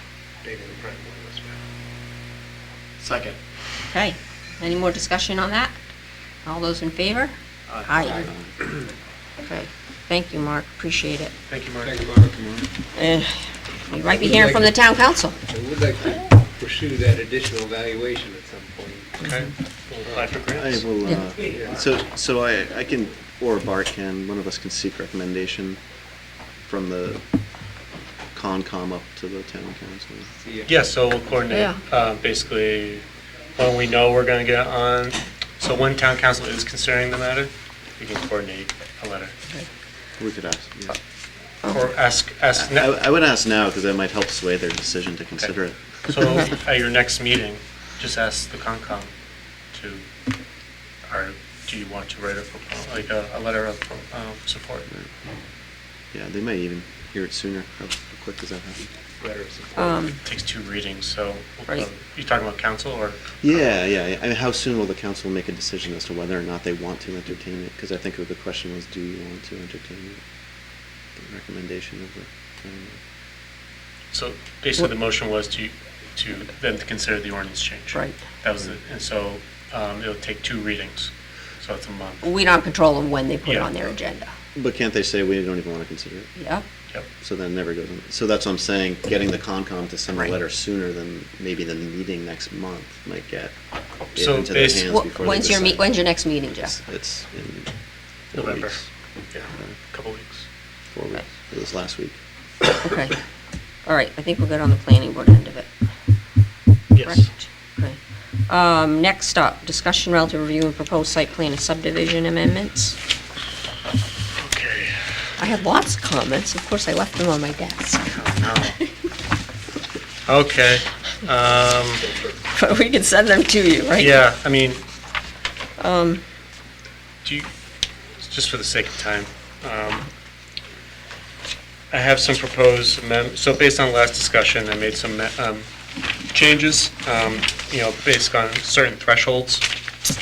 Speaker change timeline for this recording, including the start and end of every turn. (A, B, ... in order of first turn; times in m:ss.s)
0:00.4-0:01.6 A
0:03.9-0:05.8 B
0:06.4-0:07.3 B
0:07.8-0:08.3 B
0:08.0-0:08.8 A
0:09.4-0:11.3 B
0:11.5-0:12.0 C
0:11.8-0:12.7 A
0:12.9-0:15.4 B
0:14.0-0:14.8 A
0:15.3-0:19.2 A
0:19.2-0:20.9 C
0:19.2-0:19.5 B
0:20.5-0:25.8 D
0:21.4-0:21.8 A
0:26.6-0:27.2 D
0:28.3-0:30.3 D
0:30.4-0:30.7 A
0:30.7-0:33.0 C
0:33.6-0:39.3 C
0:40.2-0:41.0 D
0:41.7-0:42.9 C
0:42.5-0:46.4 D
0:46.1-0:49.1 C
0:49.7-0:50.1 C
0:51.1-0:54.9 C
0:56.1-0:58.8 D
0:59.2-1:00.1 A
0:59.8-1:00.2 B
1:00.2-1:03.3 C
1:03.4-1:10.2 D
1:11.2-1:13.0 D
1:14.1-1:22.2 C
1:17.9-1:18.2 B
1:22.2-1:24.3 B
1:23.4-1:23.7 C
1:24.5-1:26.3 D
1:26.4-1:26.6 B
1:27.2-1:33.5 D
1:34.1-1:36.0 D
1:34.1-1:34.9 C
1:34.8-1:36.7 B
1:36.6-1:37.7 D
1:38.3-1:38.9 D
1:38.3-1:38.8 C
1:39.3-1:40.5 C
1:40.9-1:42.2 D
1:42.8-1:43.2 B
1:43.8-1:45.7 B
1:46.9-1:47.3 C
1:47.0-1:53.0 B
1:54.4-1:55.3 C
1:55.4-1:58.9 B
1:58.1-1:58.8 C
2:00.2-2:02.1 C
2:02.4-2:04.2 B
2:04.0-2:04.8 C
2:05.8-2:06.2 B
2:07.2-2:07.5 C
2:08.2-2:10.1 C
2:11.9-2:15.7 C
2:16.2-2:19.7 C